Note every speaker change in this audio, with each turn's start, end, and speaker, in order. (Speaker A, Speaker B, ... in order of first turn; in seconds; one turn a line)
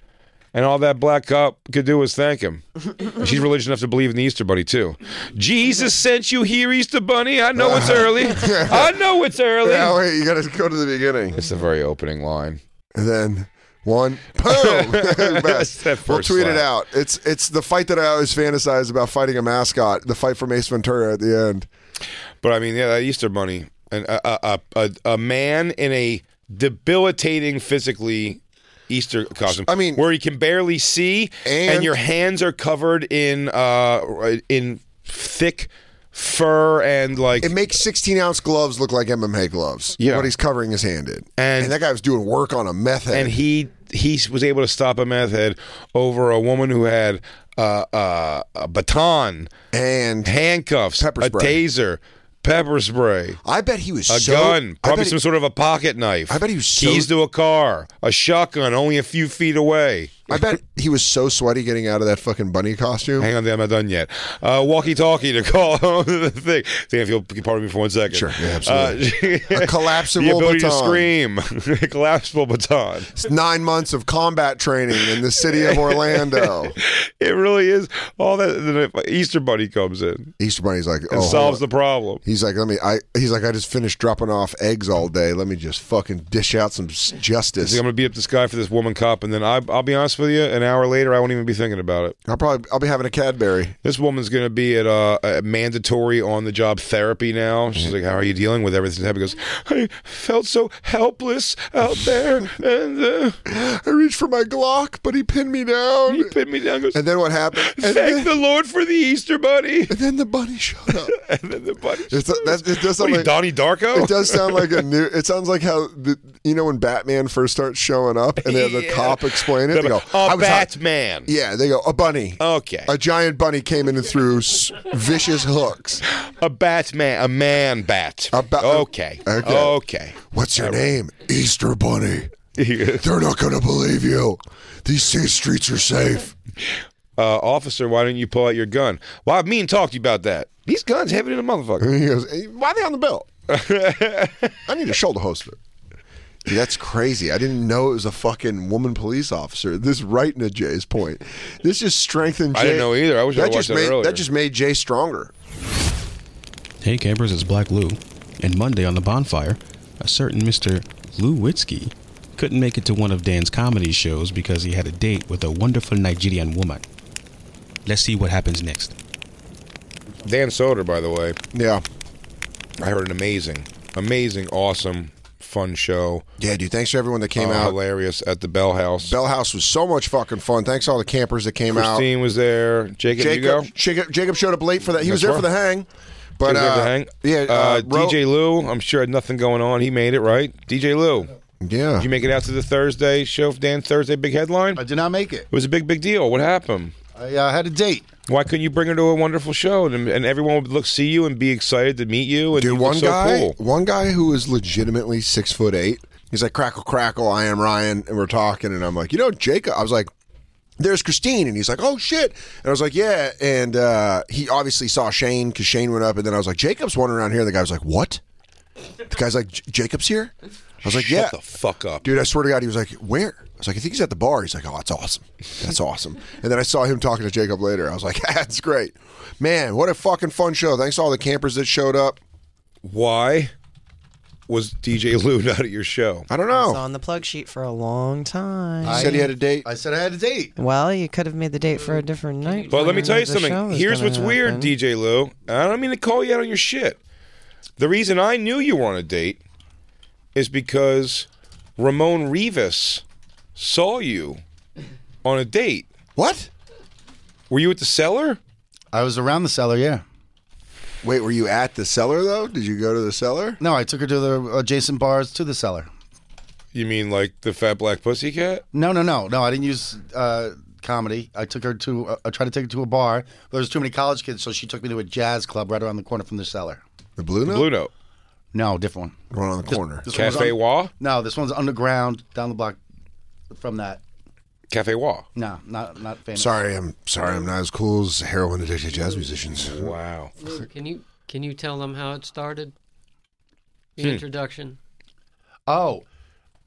Speaker A: 0.5-10.0
Speaker B: 7.5-9.0
Speaker B: 9.6-11.4
Speaker A: 11.3-12.6
Speaker B: 12.9-21.7
Speaker A: 14.4-16.7
Speaker A: 22.4-37.5
Speaker B: 29.5-30.0
Speaker B: 31.4-32.0
Speaker B: 37.4-43.4
Speaker A: 40.0-40.3
Speaker A: 41.4-41.7
Speaker A: 43.1-49.5
Speaker B: 49.7-50.4
Speaker A: 50.2-53.4
Speaker B: 51.0-51.6
Speaker B: 53.4-55.2
Speaker A: 54.1-60.4
Speaker B: 56.3-57.1
Speaker B: 60.3-63.3
Speaker A: 63.2-73.1
Speaker B: 68.1-71.1
Speaker B: 73.2-76.8
Speaker A: 75.6-80.3
Speaker B: 80.4-81.6
Speaker A: 81.1-82.2
Speaker B: 82.2-87.8
Speaker A: 87.6-92.2
Speaker B: 92.2-93.8
Speaker A: 93.8-103.4
Speaker B: 103.5-106.3
Speaker A: 106.1-107.0
Speaker B: 106.9-108.3
Speaker A: 107.5-109.9
Speaker B: 109.9-111.1
Speaker A: 111.1-114.8
Speaker B: 112.1-113.3
Speaker B: 113.9-120.7
Speaker A: 118.4-121.3
Speaker B: 121.2-126.0
Speaker A: 122.4-122.9
Speaker A: 126.2-130.8
Speaker B: 128.3-132.3
Speaker A: 132.6-133.0
Speaker B: 133.0-136.3
Speaker A: 137.2-141.9
Speaker B: 141.8-143.3
Speaker A: 143.5-144.5
Speaker B: 144.7-145.6
Speaker B: 146.4-155.3
Speaker A: 152.5-154.2
Speaker C: 156.8-166.8
Speaker C: 167.8-168.9
Speaker A: 170.2-171.4
Speaker B: 171.5-171.8
Speaker A: 172.8-176.2
Speaker B: 176.4-177.8
Speaker A: 177.3-179.1
Speaker B: 179.0-182.1
Speaker A: 181.7-183.7
Speaker B: 183.1-188.2
Speaker A: 185.0-185.4
Speaker A: 186.4-191.3
Speaker B: 191.6-192.1
Speaker A: 192.0-194.8
Speaker D: 194.8-195.5
Speaker A: 195.5-196.9
Speaker D: 197.1-198.1
Speaker A: 198.3-203.5
Speaker B: 202.5-210.1
Speaker B: 210.8-218.2
Speaker B: 219.1-221.3
Speaker A: 220.8-222.0
Speaker B: 222.0-232.2
Speaker A: 232.8-233.5
Speaker A: 234.5-236.3
Speaker B: 236.3-236.8
Speaker E: 236.5-239.2
Speaker D: 238.8-240.5
Speaker B: 238.8-239.7
Speaker E: 240.6-244.7
Speaker F: 242.5-243.2
Speaker A: 242.7-247.0
Speaker A: 247.8-249.4
Speaker A: 250.3-251.3
Speaker A: 251.8-253.0
Speaker A: 253.6-254.4
Speaker A: 255.2-255.9
Speaker B: 256.1-256.5
Speaker A: 257.5-258.4
Speaker D: 258.9-260.0
Speaker B: 261.0-263.6
Speaker D: 263.6-265.9
Speaker A: 266.7-268.6
Speaker D: 268.7-276.8
Speaker B: 277.2-277.7
Speaker A: 277.4-277.9
Speaker D: 278.5-279.2
Speaker B: 279.3-280.4
Speaker D: 279.7-282.8
Speaker A: 280.1-280.9
Speaker D: 283.5-284.0
Speaker A: 284.7-285.2
Speaker D: 285.3-286.6
Speaker B: 286.4-289.9
Speaker A: 289.6-290.3
Speaker F: 290.4-292.7
Speaker F: 294.0-294.8
Speaker D: 295.7-296.0